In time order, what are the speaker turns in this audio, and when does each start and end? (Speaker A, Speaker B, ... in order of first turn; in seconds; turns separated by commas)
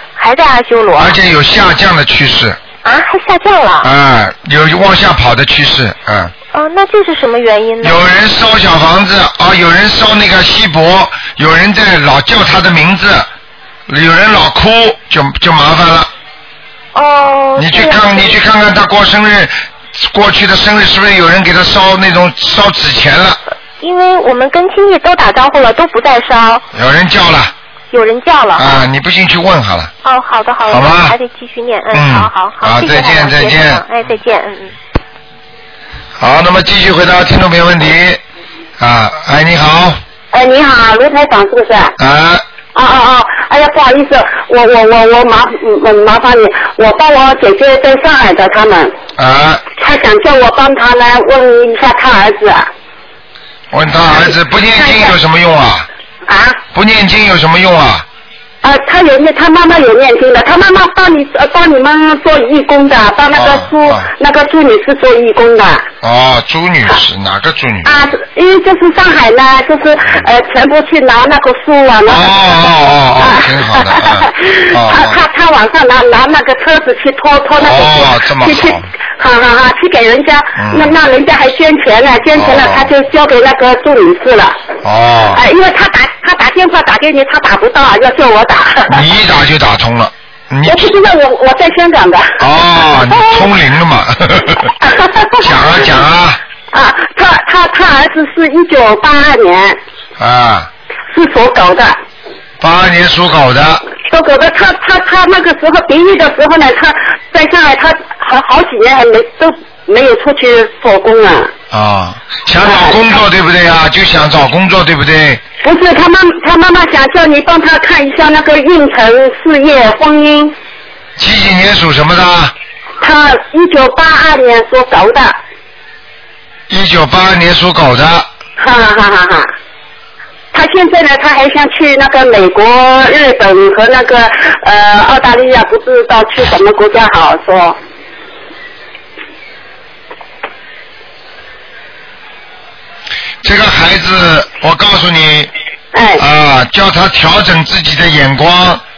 Speaker A: 0.2-1.2, Speaker B: 1.0-2.6, Speaker A: 2.8-3.9, Speaker B: 3.8-6.3, Speaker A: 6.5-8.1, Speaker B: 7.8-13.3, Speaker B: 13.9-16.1, Speaker A: 16.9-18.4, Speaker B: 17.6-23.4, Speaker A: 23.8-26.6, Speaker B: 26.7-27.5, Speaker A: 27.9-28.9, Speaker B: 28.6-29.9, Speaker A: 30.0-34.8, Speaker B: 30.7-31.1, Speaker B: 31.9-33.8, Speaker B: 36.2-38.2, Speaker B: 38.8-40.0, Speaker C: 40.3-41.9, Speaker B: 42.0-42.4, Speaker C: 42.7-49.0, Speaker B: 49.2-49.6, Speaker C: 49.8-52.7, Speaker B: 53.7-55.9, Speaker C: 54.7-55.1, Speaker C: 56.3-56.6, Speaker B: 56.7-58.1, Speaker C: 58.6-65.9, Speaker B: 63.3-64.1, Speaker B: 66.0-68.0, Speaker C: 67.8-84.7, Speaker B: 72.1-75.2, Speaker B: 77.5-78.9, Speaker B: 80.6-81.0, Speaker B: 82.3-82.9, Speaker B: 84.8-85.4, Speaker C: 85.3-89.0, Speaker B: 88.9-90.9, Speaker C: 90.6-92.4, Speaker B: 92.4-94.7, Speaker C: 93.0-93.5, Speaker C: 94.8-95.9, Speaker B: 95.4-96.4, Speaker C: 96.7-99.8, Speaker B: 100.2-100.7, Speaker C: 101.1-102.0, Speaker B: 102.6-103.8, Speaker C: 104.0-111.5, Speaker B: 111.7-115.4, Speaker C: 112.6-113.0, Speaker C: 115.6-120.5, Speaker B: 121.2-122.5, Speaker C: 123.0-125.4, Speaker B: 126.7-128.3, Speaker C: 128.6-129.5, Speaker C: 130.5-137.8, Speaker B: 143.4-145.5, Speaker C: 145.9-146.2, Speaker B: 146.2-148.8